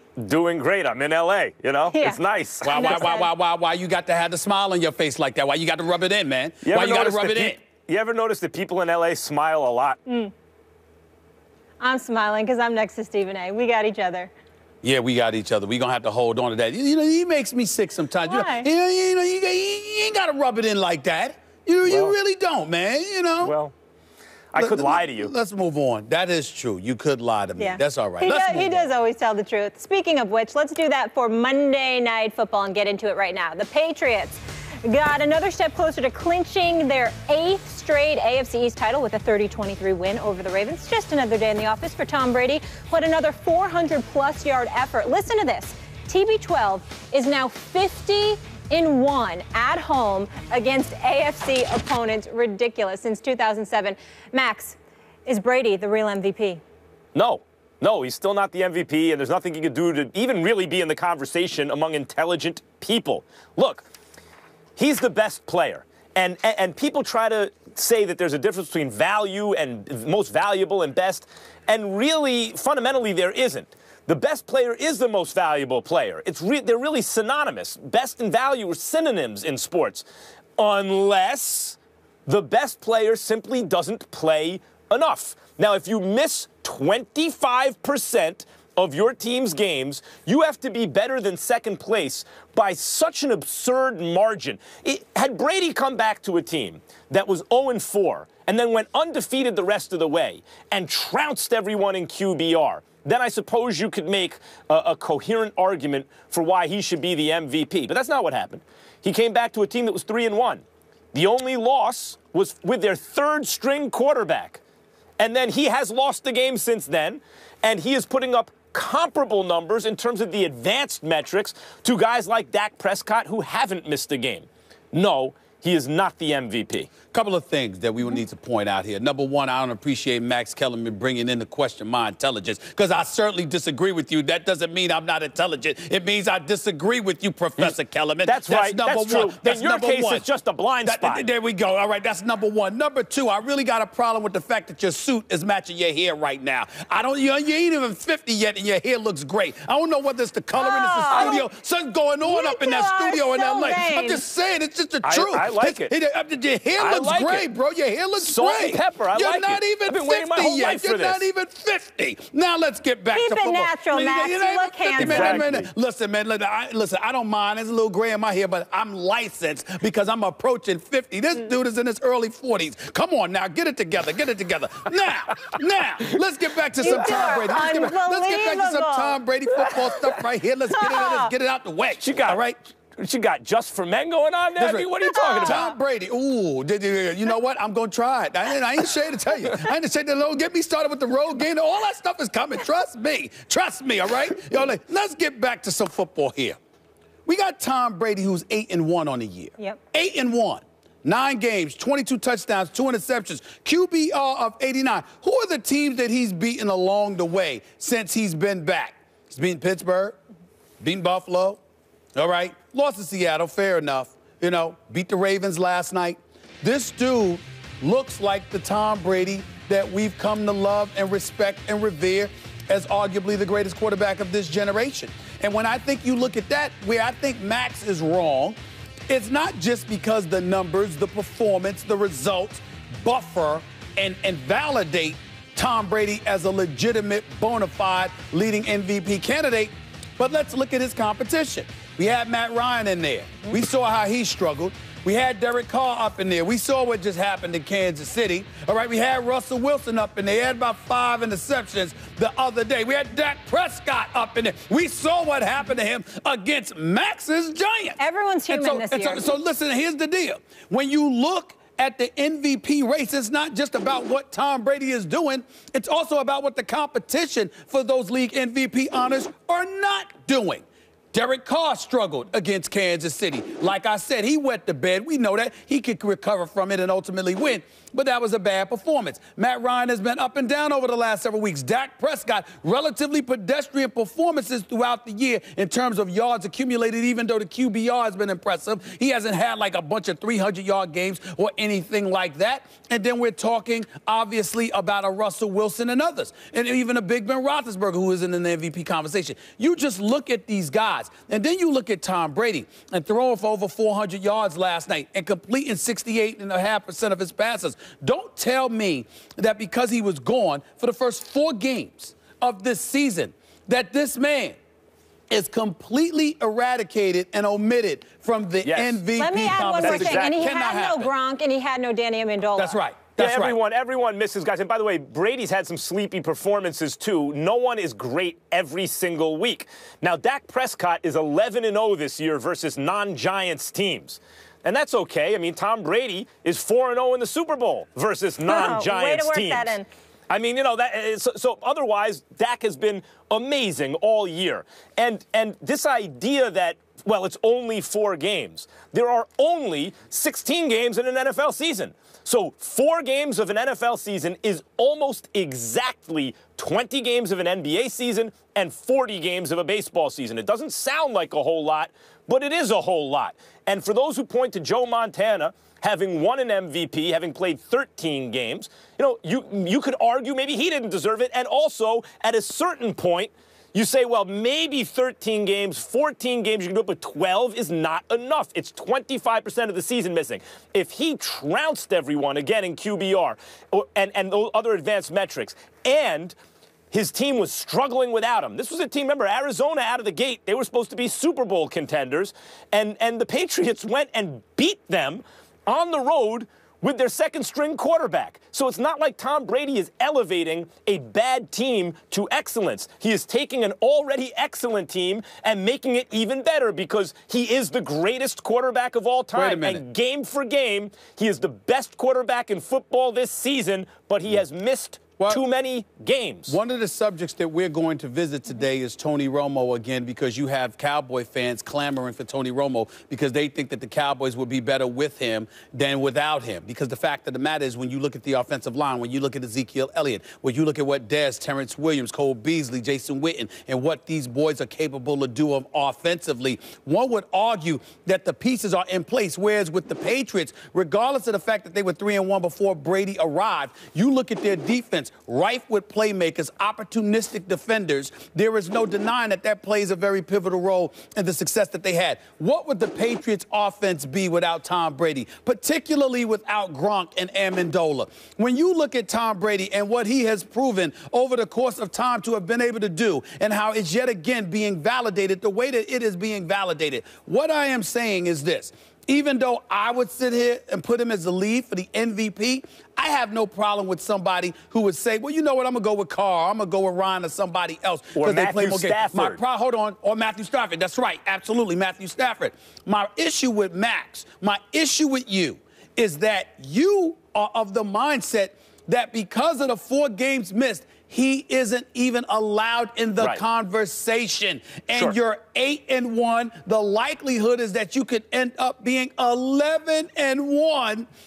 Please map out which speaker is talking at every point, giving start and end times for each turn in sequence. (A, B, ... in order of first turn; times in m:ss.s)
0:00.2-0:03.1 A
0:01.9-0:02.2 B
0:02.6-0:07.6 C
0:02.7-0:03.3 B
0:06.6-0:10.0 A
0:10.0-0:10.3 B
0:11.8-0:14.3 B
0:14.8-0:23.5 C
0:18.2-0:18.7 B
0:21.8-0:22.2 A
0:23.4-0:23.7 A
0:24.5-0:25.3 A
0:24.6-0:28.9 C
0:27.6-0:56.6 B
0:57.1-1:03.8 A
1:04.8-1:20.0 A
1:20.6-1:50.6 A
1:51.1-1:54.6 A
1:55.2-2:06.9 A
2:07.1-2:20.2 C
2:17.6-2:21.2 A
2:20.8-3:02.6 C
2:30.6-2:31.4 B
2:31.1-2:31.4 A
2:32.2-2:34.2 B
2:35.0-2:35.9 A
2:36.8-2:37.5 A
2:38.2-2:41.2 A
2:43.1-2:45.4 B
2:44.9-2:45.7 A
2:56.8-2:59.2 B
3:00.7-3:01.3 B
3:02.0-3:02.4 A
3:03.0-3:05.7 A
3:04.6-3:04.9 C
3:05.0-3:05.8 B
3:05.4-3:16.6 C
3:17.2-3:30.2 C
3:30.8-3:31.6 C
3:32.1-3:48.6 C
3:49.1-4:18.0 C
4:18.0-4:19.3 B
4:18.5-5:14.6 C
5:15.3-5:21.1 C
5:18.6-5:19.0 A
5:19.2-5:22.8 B
5:19.8-5:20.5 A
5:22.6-5:23.6 C
5:23.2-5:39.7 A
5:38.4-5:39.9 B
5:40.3-6:26.3 A
6:26.9-6:56.6 A
6:49.3-6:49.8 C
6:56.5-8:21.1 C
7:58.1-7:59.4 A